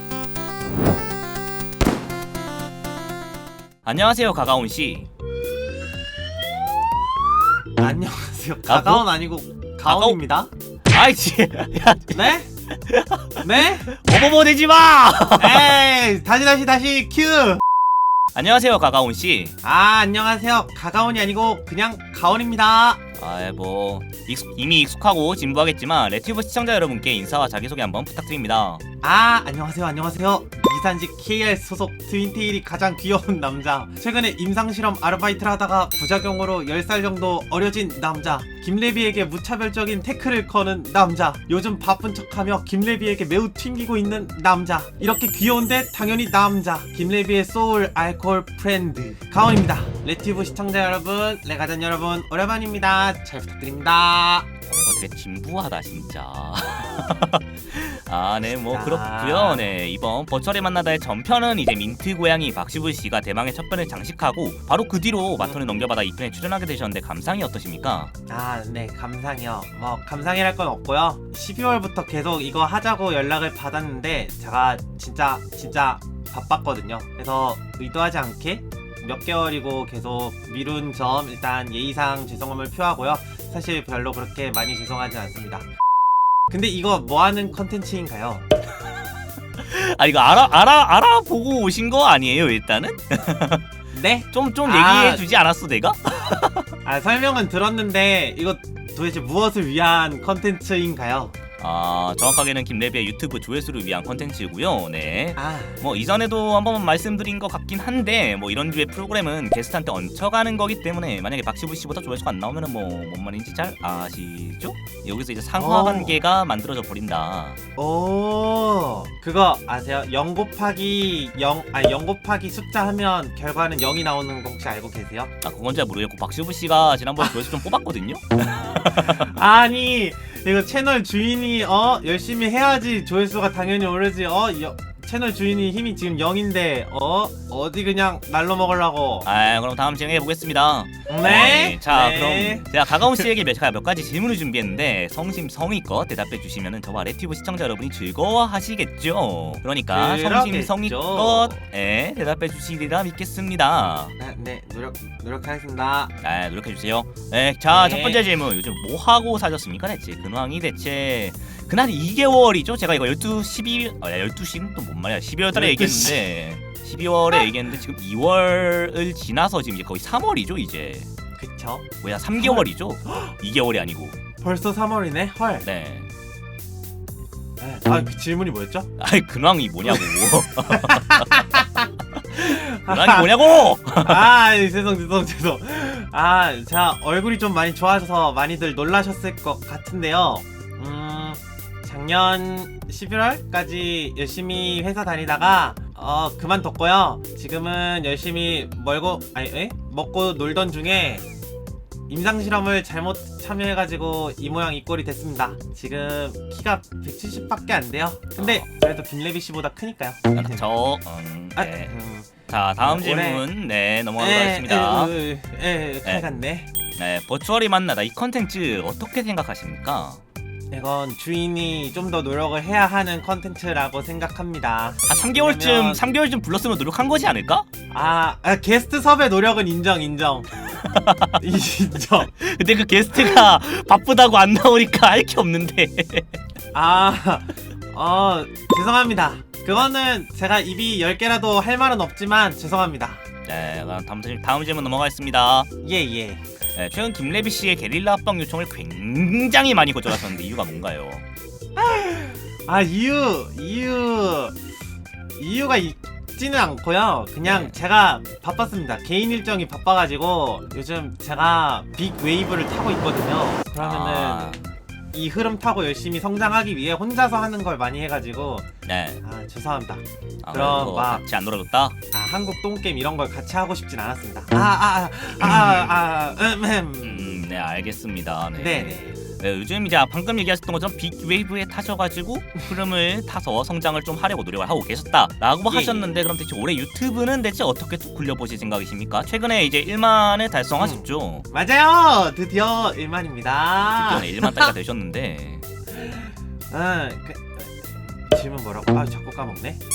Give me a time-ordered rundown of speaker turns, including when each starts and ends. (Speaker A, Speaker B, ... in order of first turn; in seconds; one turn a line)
Speaker A: 3.8-5.1
Speaker B: 7.8-10.5
Speaker A: 8.7-9.1
Speaker A: 9.8-10.2
Speaker A: 10.9-15.8
Speaker B: 12.1-12.5
Speaker B: 13.4-13.9
Speaker B: 15.4-17.6
Speaker A: 18.3-19.6
Speaker B: 19.6-23.0
Speaker A: 23.2-28.8
Speaker B: 29.0-54.5
Speaker A: 54.7-68.1
Speaker B: 58.5-59.7
Speaker B: 68.3-85.7
Speaker B: 86.5-88.5
Speaker A: 89.6-93.6
Speaker B: 93.9-95.2
Speaker A: 94.3-96.7
Speaker B: 96.8-101.3
Speaker A: 101.6-117.6
Speaker B: 105.4-105.8
Speaker B: 115.5-116.2
Speaker B: 117.8-125.3
Speaker A: 125.4-129.3
Speaker B: 128.6-139.2
Speaker A: 139.2-154.1
Speaker B: 141.1-143.2
Speaker B: 149.9-151.6
Speaker B: 154.2-156.1
Speaker A: 156.2-171.1
Speaker B: 157.7-158.2
Speaker B: 165.5-166.2
Speaker B: 171.4-173.3
Speaker A: 172.0-174.2
Speaker B: 174.4-175.7
Speaker A: 175.6-176.1
Speaker B: 177.6-178.9
Speaker A: 179.0-181.6
Speaker B: 179.9-183.4
Speaker A: 182.3-184.3
Speaker B: 184.0-201.3
Speaker B: 202.1-210.6
Speaker A: 208.4-208.7
Speaker A: 210.3-211.9
Speaker B: 211.6-213.4
Speaker A: 212.5-215.1
Speaker B: 214.2-216.7
Speaker A: 217.0-220.2
Speaker B: 220.7-226.0
Speaker A: 225.1-227.7
Speaker B: 227.9-230.5
Speaker A: 230.8-231.4
Speaker B: 231.4-232.3
Speaker A: 232.4-236.3
Speaker B: 236.7-243.2
Speaker A: 243.5-245.7
Speaker B: 245.8-246.4
Speaker A: 246.8-251.2
Speaker B: 251.8-254.6
Speaker B: 255.4-264.5
Speaker A: 257.4-257.8
Speaker A: 263.8-264.6
Speaker B: 265.1-268.7
Speaker A: 268.9-269.2
Speaker B: 269.2-271.2
Speaker A: 270.4-272.0
Speaker B: 272.1-277.3
Speaker A: 275.4-275.8
Speaker A: 277.0-291.5
Speaker B: 278.6-279.2
Speaker B: 285.7-286.2
Speaker B: 290.8-294.7
Speaker A: 293.8-295.6
Speaker B: 295.9-299.8